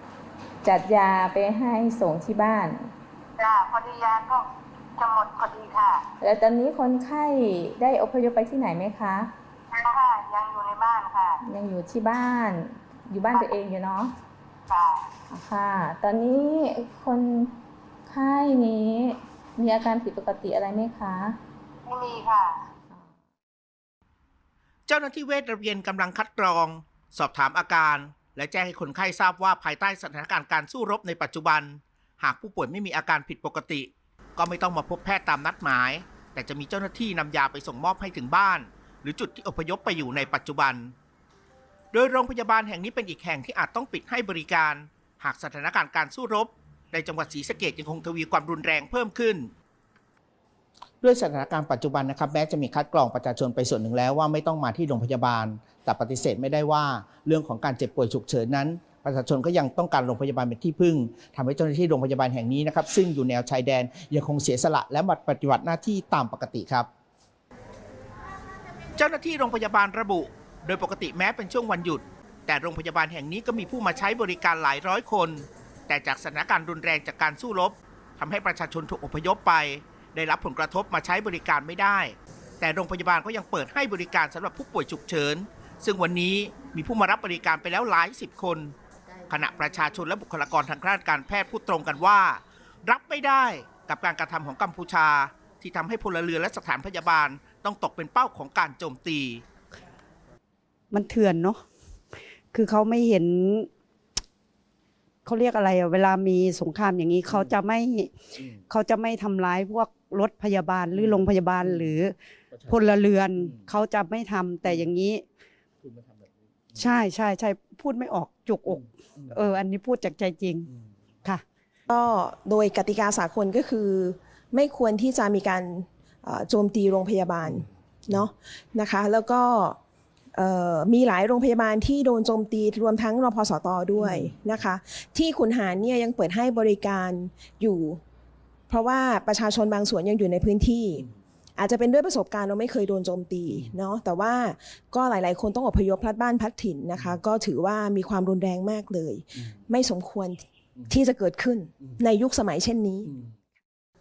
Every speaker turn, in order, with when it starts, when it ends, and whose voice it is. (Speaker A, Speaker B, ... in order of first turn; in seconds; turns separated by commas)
Speaker A: 0.6-2.9, Speaker B: 3.4-4.5, Speaker B: 5.0-6.0, Speaker A: 6.2-9.3, Speaker B: 9.7-11.4, Speaker A: 11.4-14.1, Speaker B: 14.7-15.1, Speaker A: 15.3-17.5, Speaker A: 18.1-21.4, Speaker B: 21.9-22.5, Speaker C: 24.9-40.9, Speaker C: 41.9-49.5, Speaker C: 51.0-66.9, Speaker C: 69.0-88.7, Speaker C: 89.3-99.4, Speaker D: 100.9-101.6, Speaker D: 102.5-103.7, Speaker D: 105.2-115.2, Speaker D: 116.7-120.7, Speaker E: 121.9-129.8, Speaker E: 130.3-138.0, Speaker E: 138.7-153.2